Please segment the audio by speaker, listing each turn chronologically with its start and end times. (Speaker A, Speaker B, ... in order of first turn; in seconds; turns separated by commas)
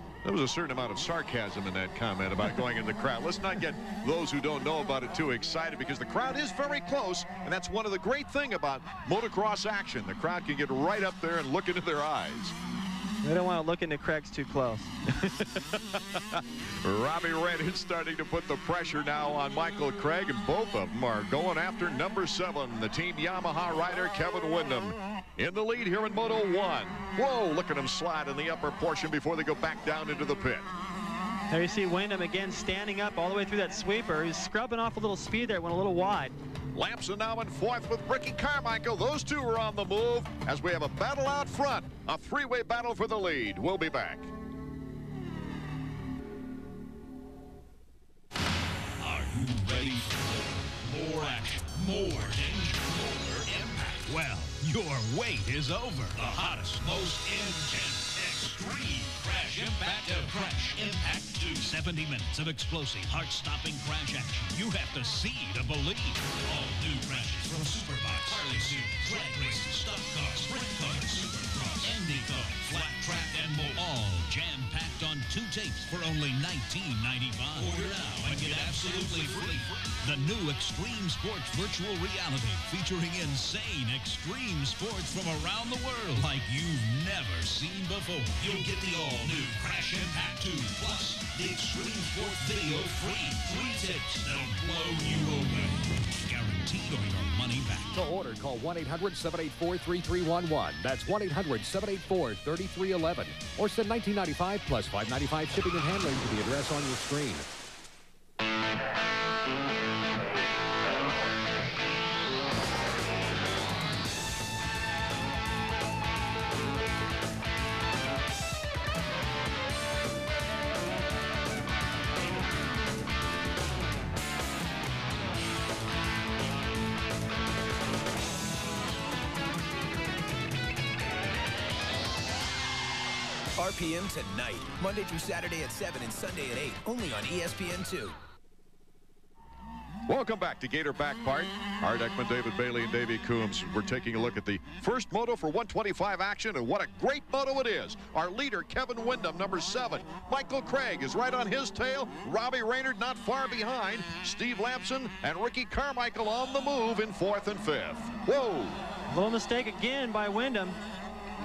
Speaker A: 0.2-12.5, Speaker B: 13.2-14.9, Speaker A: 15.2-30.7, Speaker B: 31.5-36.4, Speaker A: 36.7-44.3, Speaker C: 49.0-98.0, Speaker D: 97.9-107.5, Speaker E: 133.6-138.1, Speaker A: 140.1-158.8, Speaker B: 159.1-160.8